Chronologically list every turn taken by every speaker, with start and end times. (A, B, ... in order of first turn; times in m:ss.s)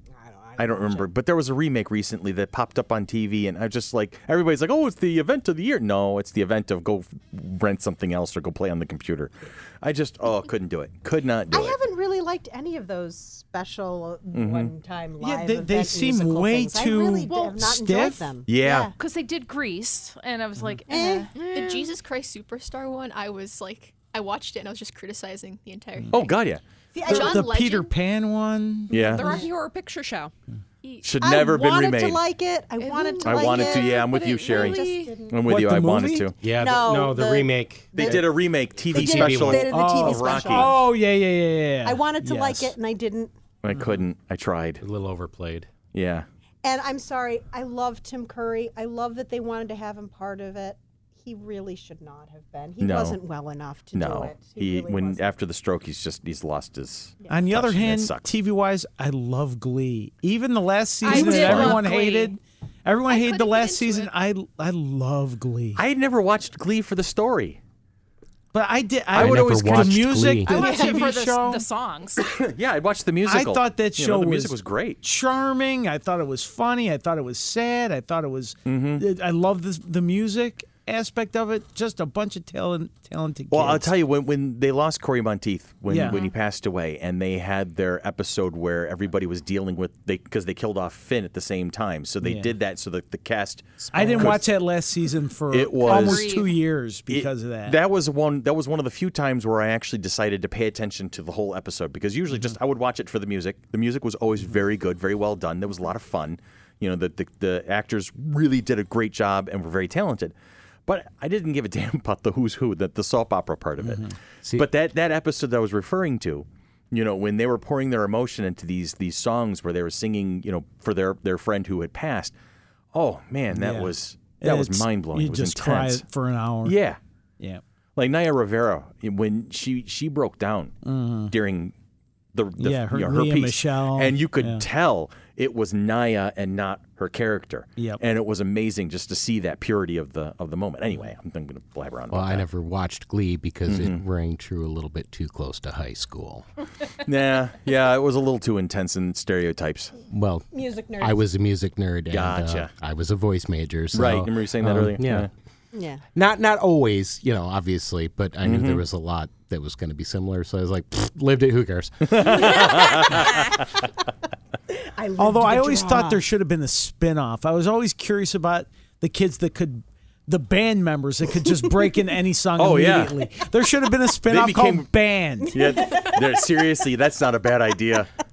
0:00.2-0:01.1 A
0:00.6-0:11.8 B
0:11.5-0:19.0 A
0:14.3-0:14.7 B
0:15.2-0:18.3 C
0:18.5-0:18.9 B
0:19.0-0:21.3 D
0:20.9-0:21.3 A
0:21.4-0:22.0 E
0:21.5-0:26.4 F
0:26.1-0:27.2 B
0:26.9-0:27.4 A
0:27.0-0:27.9 F
0:27.1-0:29.2 C
0:28.9-0:29.4 B
0:29.0-0:30.3 E
0:30.8-0:31.2 F
0:31.0-0:32.2 B
0:31.2-0:35.4 A
0:32.8-0:35.3 E
0:33.2-0:36.4 B
0:35.5-0:36.3 C
0:36.4-0:38.3 G
0:36.5-0:38.4 A
0:38.0-0:40.8 B
0:38.9-0:39.7 G
0:38.9-0:40.8 A
0:39.7-0:42.7 C
0:41.8-0:43.3 A
0:43.6-0:44.8 B
0:44.8-0:45.7 G
0:45.9-0:46.3 B
0:46.6-0:55.3 A
0:52.8-0:53.2 B
0:53.9-0:58.3 B
0:57.3-1:05.8 C
1:01.0-1:02.3 D
1:01.0-1:02.3 F
1:01.4-1:01.8 B
1:03.1-1:04.1 F
1:05.8-1:07.6 B
1:08.5-1:11.6 C
1:09.1-1:10.1 B
1:09.1-1:10.6 G
1:10.5-1:12.3 D
1:10.6-1:11.0 A
1:12.2-1:15.0 B
1:13.2-1:23.9 C
1:18.7-1:19.0 B
1:23.5-1:34.4 B
1:25.9-1:26.2 C
1:32.2-1:32.5 C
1:33.9-1:34.4 G
1:33.9-1:37.8 C
1:35.5-1:36.4 B
1:35.8-1:36.6 D
1:37.1-1:50.4 B
1:50.9-2:02.3 B
1:53.8-1:54.2 C
2:02.9-2:06.0 B
2:03.5-2:06.8 C
2:06.6-2:07.0 B
2:08.0-2:10.8 B
2:10.8-2:11.3 C
2:11.3-2:11.7 B
2:12.3-2:22.5 B
2:12.6-2:14.6 C
2:22.1-2:26.4 G
2:23.7-2:24.0 B
2:27.0-2:30.0 B
2:30.1-2:30.5 G
2:30.5-2:31.2 A
2:31.0-2:35.3 G
2:32.1-2:32.7 B
2:33.9-2:35.3 B
2:35.7-2:36.0 A
2:36.2-2:42.6 G
2:38.4-2:38.8 B
2:42.0-2:43.7 B
2:44.7-2:46.2 A
2:45.2-2:55.6 C
2:52.6-2:53.2 B
2:54.3-2:54.9 B
2:55.5-2:58.1 B
2:55.6-2:56.3 A